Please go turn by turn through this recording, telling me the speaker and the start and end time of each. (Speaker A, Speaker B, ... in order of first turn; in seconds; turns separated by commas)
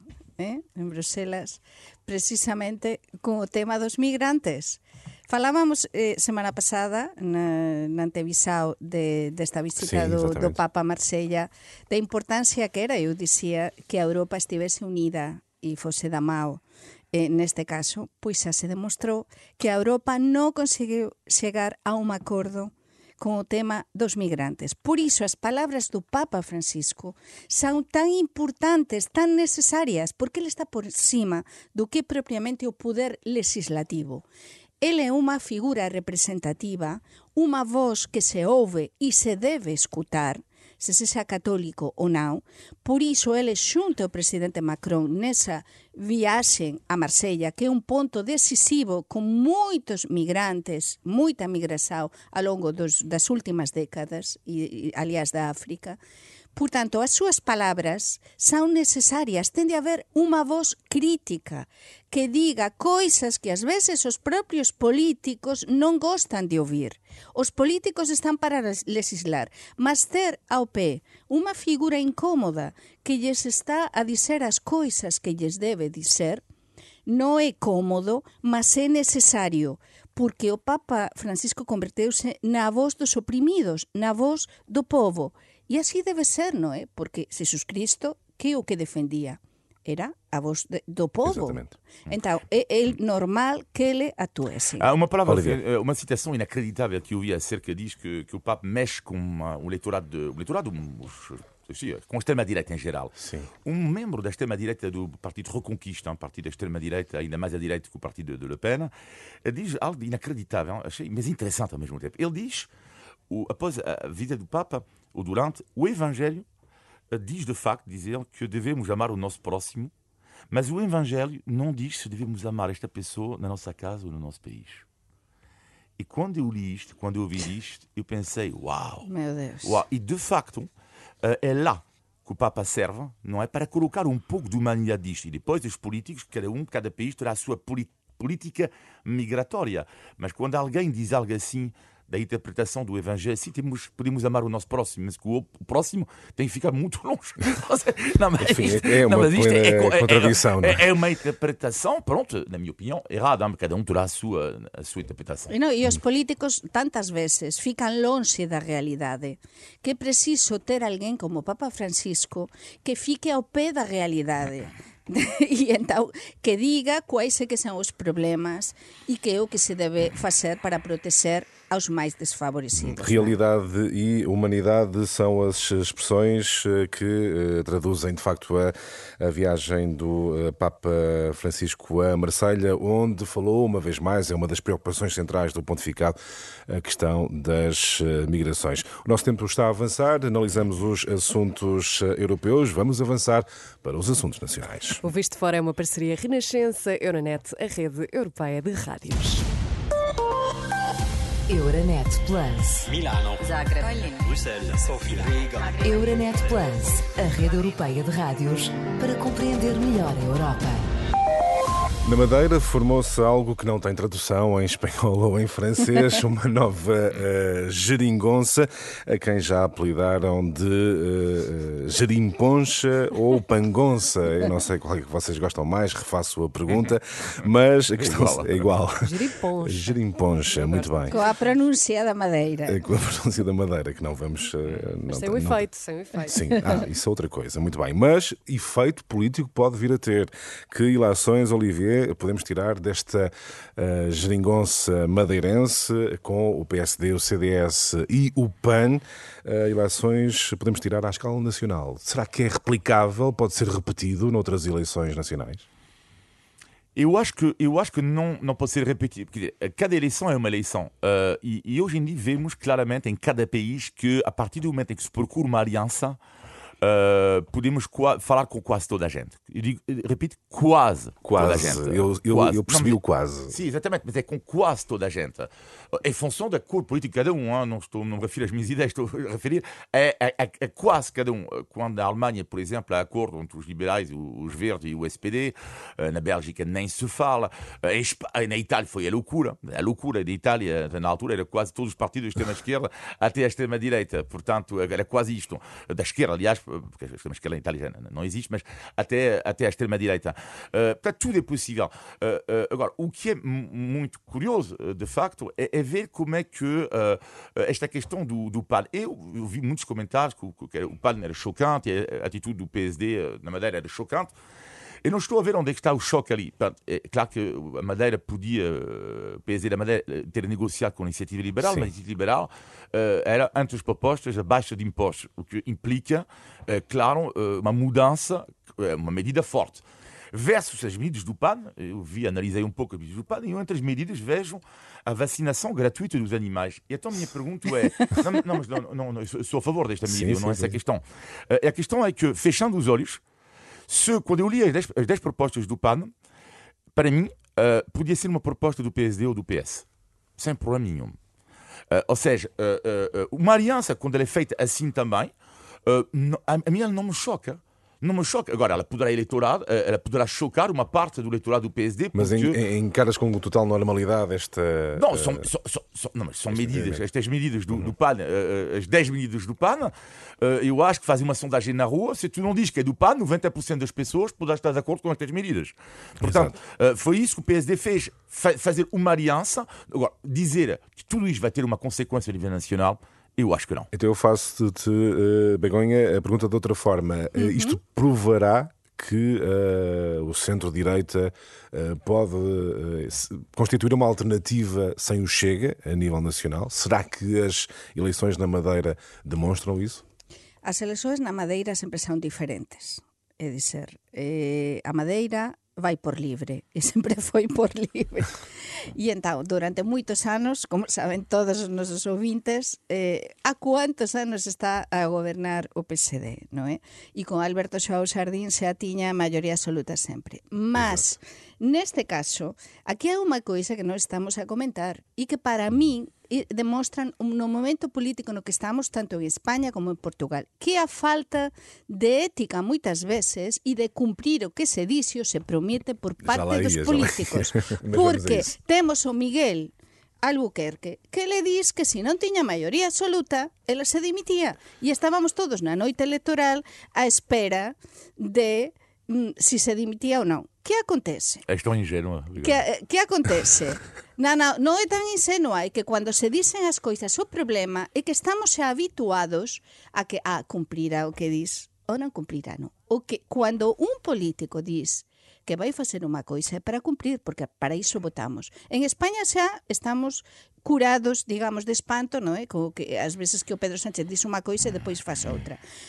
Speaker A: 0.4-34.2, Speaker B: 9.8-10.6, Speaker A: 34.8-56.0, Speaker A: 56.5-76.4, Speaker A: 77.1-94.9, Speaker B: 91.2-91.8, Speaker C: 94.8-108.9, Speaker B: 95.3-95.6, Speaker B: 103.2-103.5, Speaker C: 109.5-112.7, Speaker C: 113.3-116.5, Speaker C: 117.1-119.9, Speaker C: 120.5-124.8, Speaker C: 126.0-129.1, Speaker A: 129.0-129.8, Speaker C: 129.6-130.7, Speaker C: 131.2-155.5, Speaker B: 148.4-150.8, Speaker A: 155.5-173.4, Speaker B: 172.7-195.0, Speaker D: 195.0-199.4, Speaker E: 201.5-202.9, Speaker F: 202.9-203.5, Speaker E: 203.4-204.2, Speaker F: 204.2-205.8, Speaker E: 205.8-210.9, Speaker B: 212.0-231.2, Speaker C: 228.0-228.7, Speaker D: 229.0-231.4, Speaker A: 231.1-232.8, Speaker B: 232.7-235.7, Speaker D: 235.1-236.9, Speaker B: 236.2-255.7, Speaker C: 257.0-266.2, Speaker C: 266.8-273.0, Speaker B: 271.2-273.6, Speaker C: 273.5-314.3, Speaker C: 315.0-343.2, Speaker B: 340.1-340.8, Speaker C: 343.9-346.1, Speaker C: 346.9-349.9, Speaker C: 350.4-351.2, Speaker C: 351.9-355.3, Speaker C: 355.9-362.6, Speaker B: 362.1-365.5, Speaker C: 364.9-383.9, Speaker B: 366.5-367.0, Speaker B: 376.2-376.6, Speaker B: 383.9-400.0, Speaker A: 387.4-387.8, Speaker A: 400.6-408.4, Speaker A: 408.9-451.4, Speaker B: 436.2-438.5, Speaker C: 451.5-452.6, Speaker A: 452.4-475.6